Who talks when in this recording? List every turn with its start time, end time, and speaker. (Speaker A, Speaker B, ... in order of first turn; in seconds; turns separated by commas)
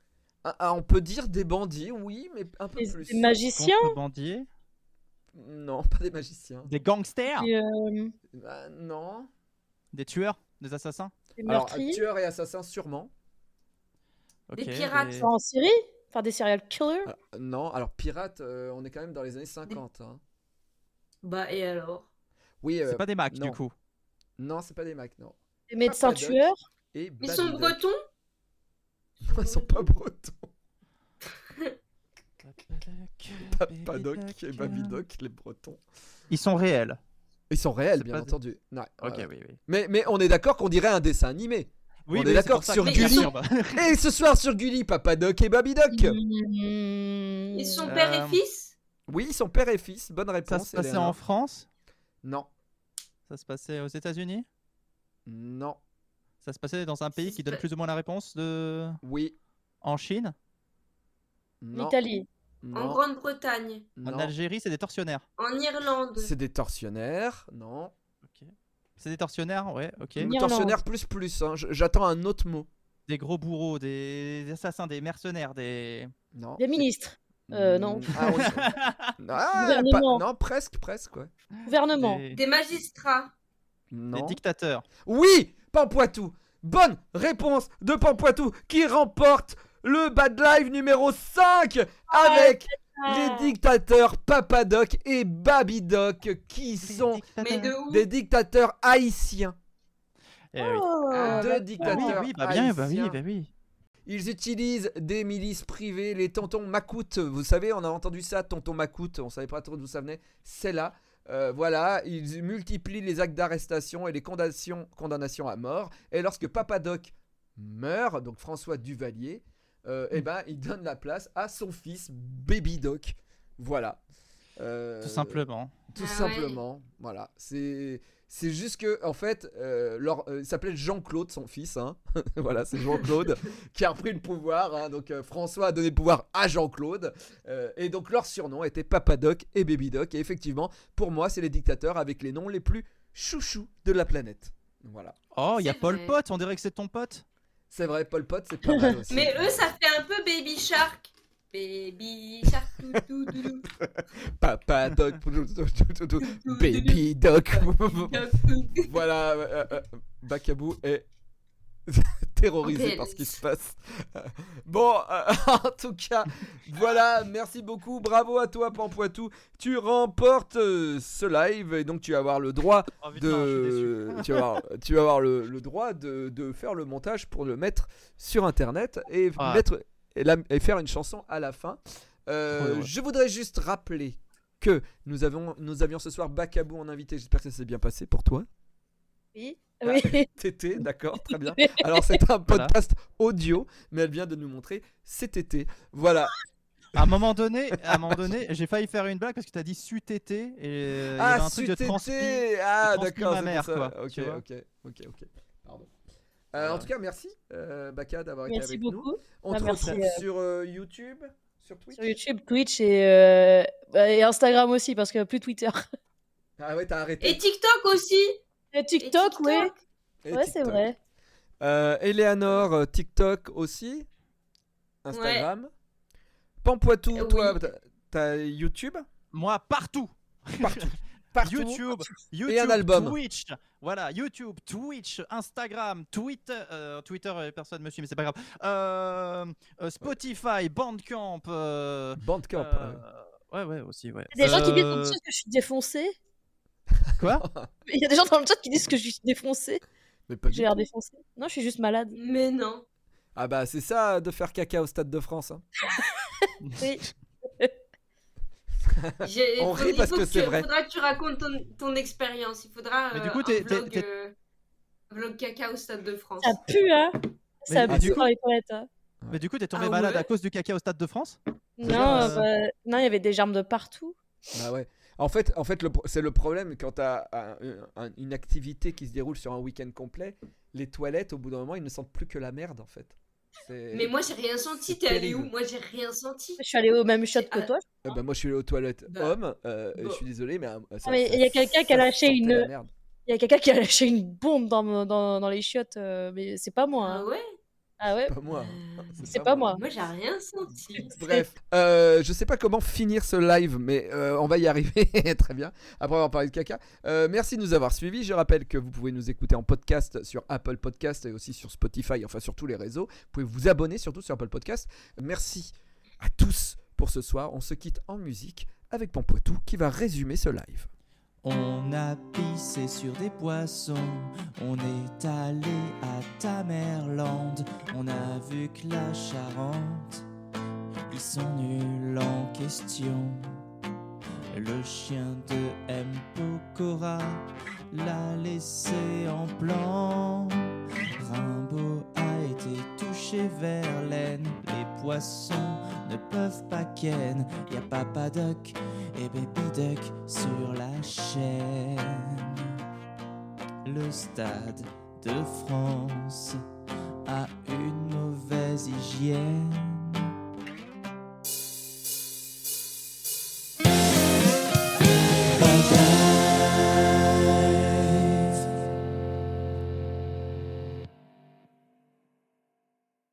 Speaker A: 0.4-3.3, Speaker B: 2.8-4.0, Speaker C: 3.5-4.5, Speaker A: 5.3-6.7, Speaker C: 6.6-7.5, Speaker B: 7.3-8.1, Speaker A: 8.3-9.3, Speaker C: 9.9-11.1, Speaker B: 11.4-12.0, Speaker A: 11.5-13.1, Speaker C: 14.5-15.3, Speaker D: 14.6-15.2, Speaker B: 15.2-17.1, Speaker A: 17.1-20.2, Speaker D: 21.2-22.1, Speaker A: 22.6-23.6, Speaker C: 22.9-23.7, Speaker A: 24.4-26.4, Speaker B: 25.7-26.6, Speaker A: 26.9-27.8, Speaker D: 27.2-28.0, Speaker A: 29.2-30.5, Speaker D: 29.2-29.9, Speaker C: 32.4-35.0, Speaker A: 33.4-35.8, Speaker C: 36.3-37.0, Speaker A: 37.5-46.2, Speaker C: 38.0-38.3, Speaker C: 39.0-39.6, Speaker C: 42.1-43.9, Speaker D: 42.8-43.3, Speaker B: 45.9-47.9, Speaker D: 47.5-48.7, Speaker C: 47.9-48.4, Speaker A: 49.1-51.2, Speaker C: 50.5-51.7, Speaker A: 52.2-52.5, Speaker C: 53.3-54.5, Speaker A: 55.2-55.8, Speaker C: 56.4-59.0, Speaker D: 57.1-57.6, Speaker A: 59.0-59.4, Speaker C: 59.8-60.3, Speaker A: 61.6-61.9, Speaker B: 61.7-62.3, Speaker A: 62.6-63.0, Speaker D: 62.7-63.9, Speaker A: 64.0-64.3, Speaker C: 64.0-65.2, Speaker D: 65.4-66.3, Speaker A: 66.2-67.9, Speaker C: 68.2-70.3, Speaker A: 70.2-72.7, Speaker B: 70.2-70.8, Speaker C: 73.1-76.1, Speaker A: 76.3-76.8, Speaker B: 76.6-78.4, Speaker A: 77.5-81.3, Speaker C: 78.3-79.1, Speaker B: 79.5-80.2, Speaker B: 81.7-82.2, Speaker C: 81.9-82.4, Speaker D: 82.3-83.3, Speaker A: 83.9-84.4, Speaker C: 84.1-84.8, Speaker A: 85.0-97.2, Speaker B: 92.1-93.5, Speaker C: 96.9-97.7, Speaker D: 97.4-98.1, Speaker A: 97.8-99.5, Speaker C: 100.5-100.9, Speaker B: 100.6-102.1, Speaker D: 101.1-101.5, Speaker A: 101.2-103.2, Speaker C: 101.8-103.5, Speaker A: 104.1-124.0, Speaker A: 124.6-145.1, Speaker C: 125.0-125.7, Speaker D: 126.0-126.6, Speaker C: 145.3-147.2, Speaker D: 145.6-146.2, Speaker A: 147.7-149.6, Speaker B: 148.7-148.9, Speaker D: 149.1-153.7, Speaker A: 153.8-161.0, Speaker D: 156.2-157.0, Speaker D: 157.5-158.9, Speaker A: 161.9-188.5, Speaker D: 162.6-163.4, Speaker C: 173.0-174.4, Speaker C: 179.4-179.6, Speaker C: 182.5-182.9, Speaker B: 189.3-190.3, Speaker A: 189.8-196.3, Speaker B: 191.3-192.1, Speaker C: 192.5-192.7, Speaker C: 196.9-204.4, Speaker A: 197.7-198.2, Speaker A: 201.1-205.9, Speaker A: 206.5-212.1, Speaker C: 206.6-206.9, Speaker B: 208.5-210.2, Speaker C: 209.7-210.0, Speaker B: 211.9-215.8, Speaker A: 216.6-217.4, Speaker D: 217.2-218.3, Speaker B: 218.7-219.7, Speaker D: 219.0-219.8, Speaker A: 220.2-220.9, Speaker B: 220.3-220.9, Speaker A: 221.6-224.1, Speaker A: 225.0-225.7, Speaker D: 225.1-225.4, Speaker A: 226.6-229.1, Speaker D: 227.1-227.6, Speaker C: 229.3-245.2, Speaker A: 230.6-231.8, Speaker A: 232.4-233.2, Speaker A: 242.2-243.0, Speaker B: 244.3-246.2, Speaker A: 247.1-247.7, Speaker C: 247.2-247.4, Speaker B: 247.9-249.8, Speaker A: 250.3-250.8, Speaker B: 250.5-252.2, Speaker D: 252.1-252.8, Speaker A: 253.3-255.6, Speaker B: 255.9-257.0, Speaker C: 256.6-256.9, Speaker A: 258.9-260.7, Speaker D: 259.2-264.3, Speaker C: 263.1-264.1, Speaker D: 265.1-266.6, Speaker B: 266.4-268.9, Speaker C: 267.7-268.3, Speaker A: 267.9-268.2, Speaker C: 269.3-272.5, Speaker D: 269.7-270.3, Speaker B: 271.8-274.1, Speaker A: 271.8-272.4, Speaker A: 274.5-284.1, Speaker D: 283.9-286.6, Speaker A: 284.9-285.5, Speaker B: 286.6-288.2, Speaker D: 287.3-287.7, Speaker A: 288.0-292.9, Speaker D: 289.1-289.4, Speaker D: 289.9-290.2, Speaker B: 291.0-292.7, Speaker B: 293.3-297.2, Speaker D: 297.0-297.4, Speaker B: 298.0-298.3, Speaker A: 298.3-299.8, Speaker D: 298.5-299.2, Speaker B: 299.3-299.8, Speaker D: 299.8-301.1, Speaker B: 301.0-301.4, Speaker A: 301.0-320.9, Speaker E: 321.4-330.2, Speaker E: 331.1-333.6, Speaker E: 334.5-352.8, Speaker E: 353.8-356.6, Speaker E: 357.2-360.3, Speaker E: 365.5-366.8, Speaker E: 367.5-368.6